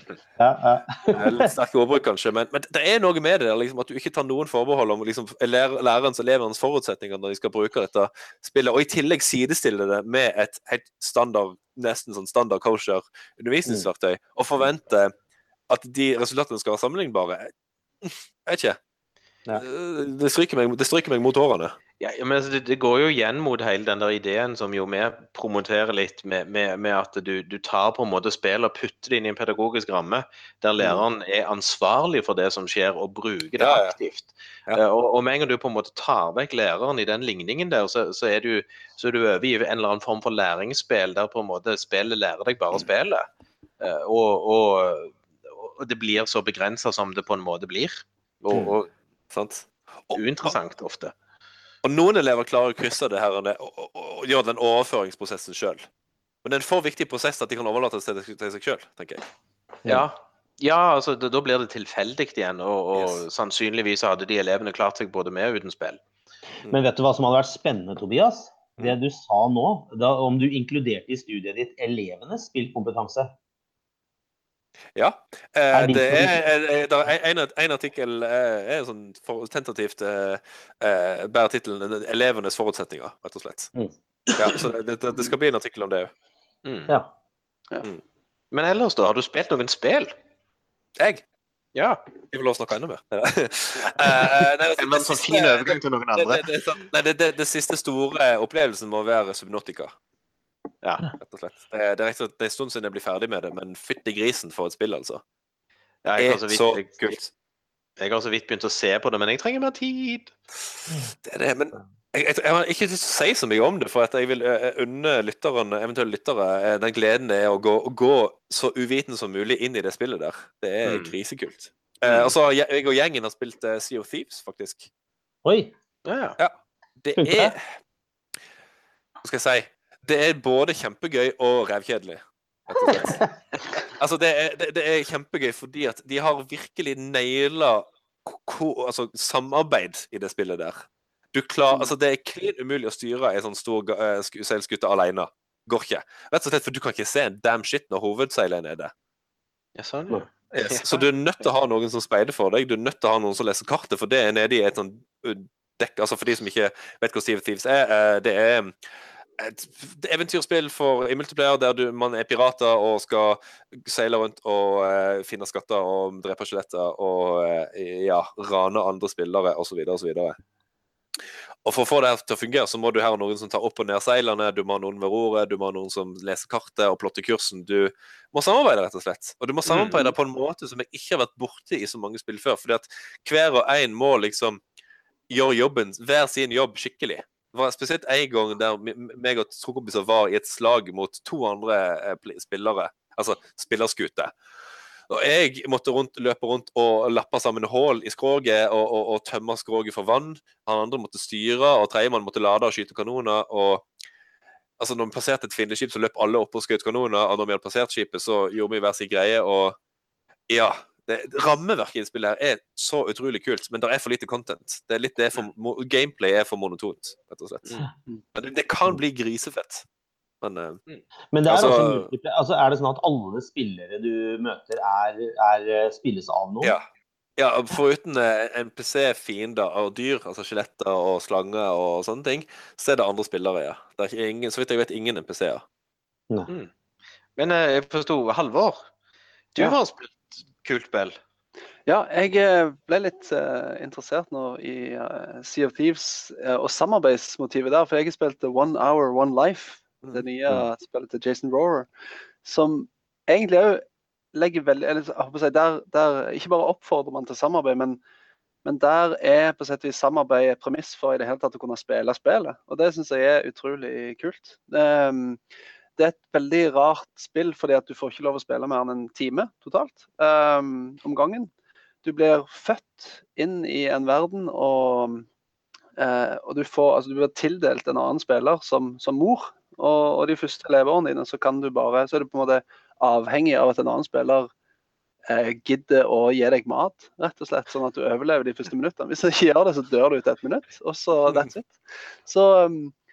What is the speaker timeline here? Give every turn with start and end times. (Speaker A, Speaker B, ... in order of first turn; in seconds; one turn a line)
Speaker A: 0.4-1.5
Speaker B: 1.1-15.1
Speaker B: 15.7-17.5
Speaker B: 18.0-18.8
Speaker B: 19.5-21.7
Speaker C: 22.0-43.2
Speaker B: 33.6-33.9
Speaker C: 43.8-48.9
Speaker B: 49.3-50.5
Speaker C: 50.1-51.1
Speaker B: 51.8-55.9
Speaker B: 56.4-59.2
Speaker C: 59.9-66.0
Speaker A: 66.7-73.3
Speaker B: 74.9-83.7
Speaker A: 75.7-76.4
Speaker B: 84.4-86.1
Speaker C: 86.6-86.9
Speaker C: 88.5-90.1
Speaker C: 91.7-92.0
Speaker B: 92.3-99.9
Speaker C: 93.8-96.5
Speaker B: 101.2-105.2
Speaker C: 106.0-107.3
Speaker B: 106.2-107.2
Speaker C: 108.0-110.4
Speaker B: 111.2-124.9
Speaker C: 120.8-121.1
Speaker C: 122.0-122.3
Speaker A: 125.4-125.7
Speaker C: 126.0-126.4
Speaker B: 126.4-127.6
Speaker A: 127.2-127.5
Speaker B: 129.2-133.2
Speaker A: 132.8-133.3
Speaker B: 133.9-148.9
Speaker C: 149.8-151.0
Speaker B: 150.5-158.7
Speaker B: 159.4-170.4
Speaker B: 171.6-184.6
Speaker C: 179.7-180.1
Speaker B: 185.3-194.3
Speaker B: 195.1-203.9
Speaker B: 204.8-209.8
Speaker B: 210.5-217.8
Speaker B: 218.3-219.8
Speaker B: 220.4-220.8
Speaker A: 221.3-226.8
Speaker B: 221.5-222.1
Speaker B: 227.4-235.6
Speaker C: 237.4-238.8
Speaker C: 239.5-241.2
Speaker D: 241.8-251.9
Speaker D: 252.4-258.0
Speaker D: 258.6-265.4
Speaker D: 266.0-271.5
Speaker D: 272.0-275.3
Speaker D: 276.0-284.5
Speaker D: 285.3-292.9